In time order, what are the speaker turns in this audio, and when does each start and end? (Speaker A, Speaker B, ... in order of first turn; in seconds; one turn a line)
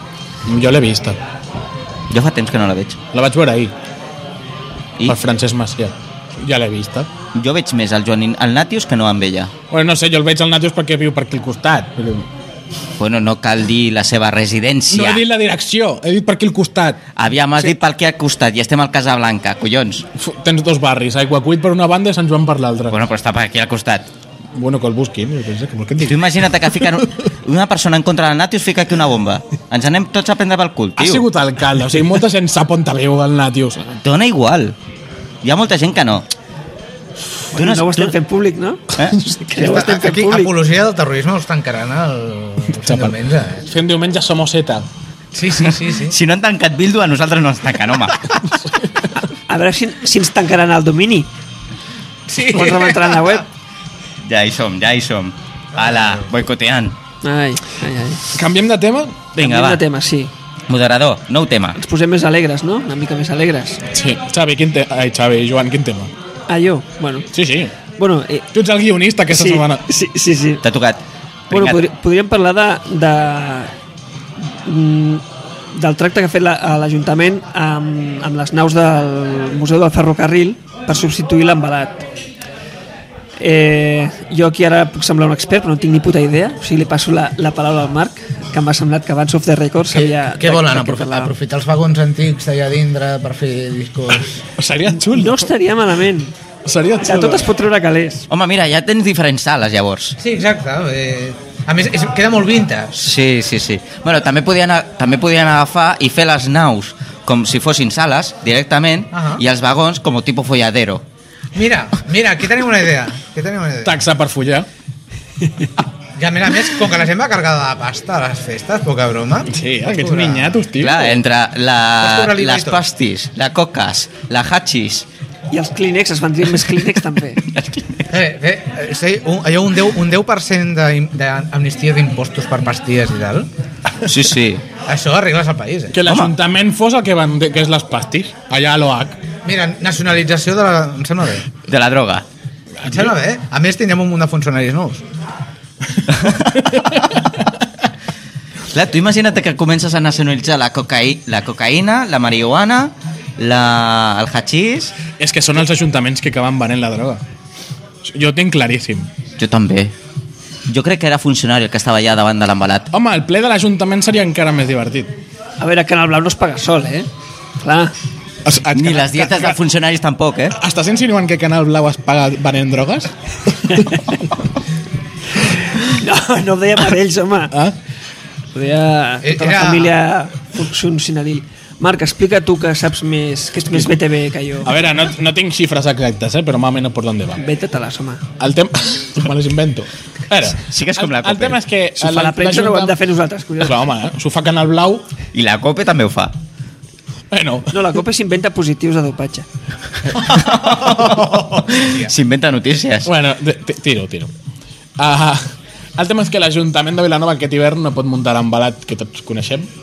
Speaker A: 0.5-1.2
Speaker B: 2.1-3.0
Speaker A: 3.1-3.7
Speaker A: 5.0-7.1
Speaker B: 7.3-9.5
Speaker A: 9.7-12.2
Speaker B: 13.0-15.2
Speaker A: 14.9-17.0
Speaker B: 17.1-20.1
Speaker A: 20.1-23.0
Speaker B: 22.9-24.1
Speaker A: 24.5-26.3
Speaker B: 26.0-31.2
Speaker A: 31.0-34.0
Speaker B: 34.0-34.7
Speaker B: 35.4-36.3
Speaker C: 37.5-40.5
Speaker B: 37.5-38.1
Speaker D: 39.5-43.6
Speaker A: 42.8-43.1
Speaker A: 43.7-44.9
Speaker D: 45.3-46.1
Speaker B: 45.6-48.3
Speaker C: 49.5-51.3
Speaker D: 52.3-53.4
Speaker C: 52.5-53.5
Speaker B: 54.2-56.9
Speaker D: 55.7-56.3
Speaker C: 57.2-58.2
Speaker A: 58.3-59.2
Speaker B: 59.3-59.8
Speaker C: 59.4-60.3
Speaker B: 60.7-61.8
Speaker C: 61.8-63.8
Speaker A: 63.9-66.1
Speaker C: 66.5-67.3
Speaker A: 67.3-67.7
Speaker C: 68.0-68.5
Speaker A: 68.5-69.8
Speaker C: 69.3-70.6
Speaker B: 70.6-71.8
Speaker C: 71.5-73.7
Speaker C: 74.4-82.0
Speaker C: 83.4-91.3
Speaker D: 89.9-94.3
Speaker A: 94.6-95.5
Speaker C: 94.9-96.3
Speaker A: 96.7-97.5
Speaker C: 97.0-98.3
Speaker B: 98.3-100.2
Speaker D: 100.2-103.0
Speaker B: 103.0-111.0
Speaker D: 109.1-109.4
Speaker D: 111.5-114.1
Speaker A: 113.8-114.7
Speaker D: 116.2-120.6
Speaker A: 119.5-121.2
Speaker B: 120.8-125.0
Speaker D: 122.0-122.8
Speaker C: 125.5-127.4
Speaker B: 127.5-128.0
Speaker D: 128.1-133.5
Speaker B: 134.0-134.6
Speaker D: 134.8-136.0
Speaker A: 135.9-139.2
Speaker B: 136.1-136.3
Speaker D: 139.4-141.5
Speaker B: 141.7-142.2
Speaker A: 142.8-143.1
Speaker D: 142.8-145.0
Speaker B: 146.1-147.3
Speaker A: 146.7-147.0
Speaker B: 148.7-154.9
Speaker A: 155.2-157.2
Speaker A: 158.0-159.1
Speaker B: 159.4-159.9
Speaker B: 160.7-162.9
Speaker A: 162.9-165.1
Speaker C: 165.6-167.1
Speaker C: 167.6-167.9
Speaker A: 168.4-169.6
Speaker B: 168.7-170.6
Speaker A: 170.6-174.0
Speaker C: 175.7-177.5
Speaker C: 178.5-184.7
Speaker D: 179.2-179.9
Speaker A: 184.6-187.4
Speaker C: 187.4-188.2
Speaker A: 188.4-193.0
Speaker B: 190.5-191.6
Speaker C: 191.9-193.8
Speaker A: 193.6-195.0
Speaker B: 195.3-196.3
Speaker A: 197.3-197.7
Speaker C: 197.7-199.5
Speaker A: 200.1-200.4
Speaker B: 200.2-203.1
Speaker D: 200.8-202.1
Speaker A: 203.0-204.3
Speaker A: 205.0-209.7